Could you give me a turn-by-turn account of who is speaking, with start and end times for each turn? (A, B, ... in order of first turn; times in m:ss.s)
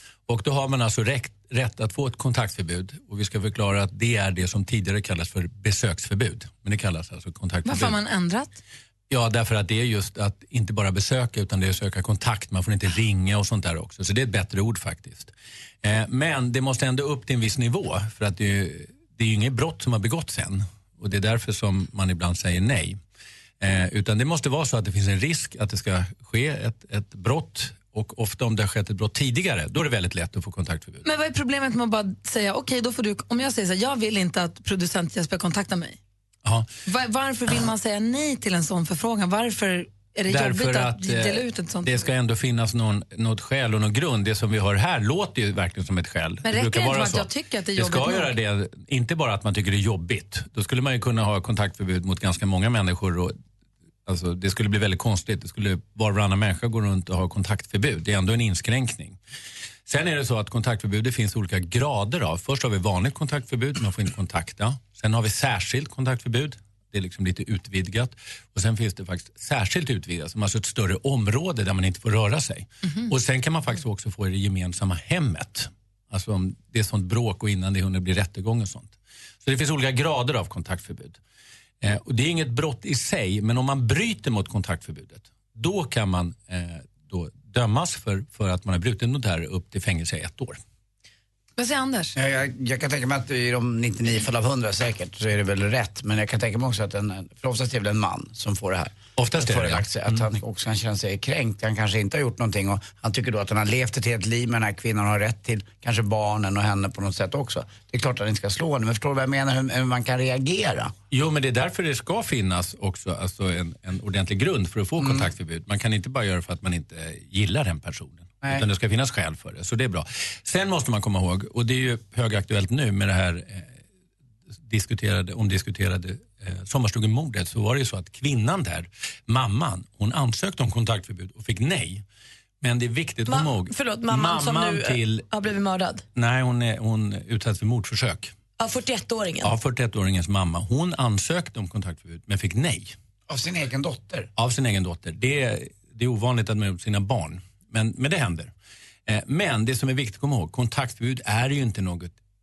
0:00.3-0:08.0 A
0:07.6-0:08.6 B
0:09.1-0:15.3 A
0:15.8-0:23.0 A
0:23.6-0:31.1 A
0:31.0-0:36.0 B
0:36.9-0:42.0 B
0:40.3-0:53.4 A
0:46.4-0:48.4 B
0:54.1-0:59.2 A
0:59.9-1:21.2 A
1:21.8-1:30.6 A
1:31.6-1:32.2 B
1:32.1-1:50.9 C
1:39.2-1:40.2 A
1:51.1-2:03.7 A
1:55.0-1:55.3 C
2:04.6-2:12.0 A
2:12.6-2:15.3 A
2:13.3-2:16.0 D
2:16.1-2:18.3 A
2:18.6-2:19.5 D
2:19.4-2:22.9 A
2:23.3-2:24.3 C
2:24.4-2:28.5 A
2:29.1-2:32.2 A